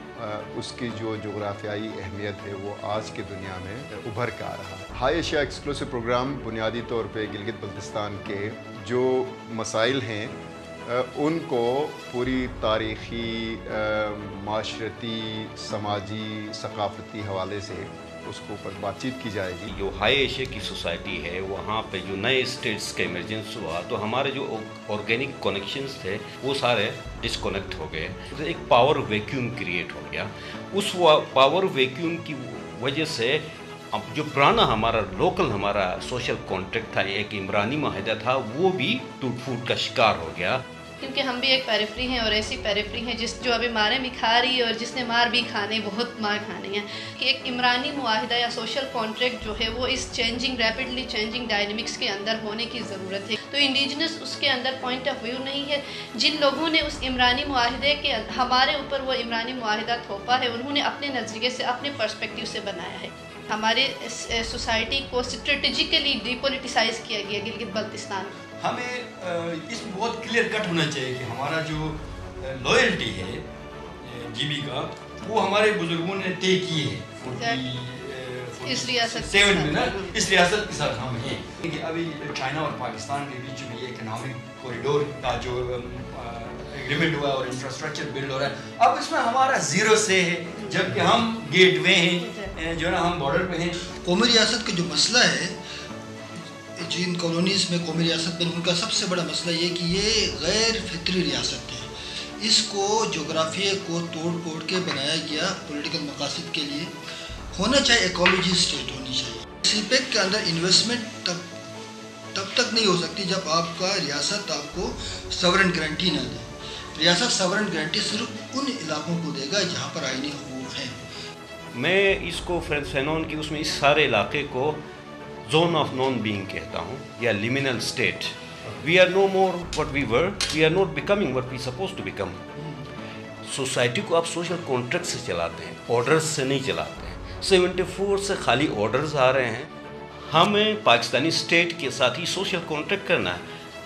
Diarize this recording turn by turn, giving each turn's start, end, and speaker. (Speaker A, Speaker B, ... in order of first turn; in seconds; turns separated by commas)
Speaker A: 0.2-19.7, Speaker B: 19.7-40.6, Speaker C: 41.0-68.3, Speaker D: 68.6-73.4, Speaker D: 74.0-93.8, Speaker C: 77.3-77.6, Speaker C: 78.7-80.2, Speaker C: 90.5-90.8, Speaker C: 92.2-92.5, Speaker E: 93.9-95.6, Speaker E: 96.4-106.9, Speaker E: 107.5-111.5, Speaker E: 112.3-121.0, Speaker B: 121.7-124.8, Speaker B: 125.5-132.4, Speaker B: 133.4-139.7, Speaker B: 140.2-143.4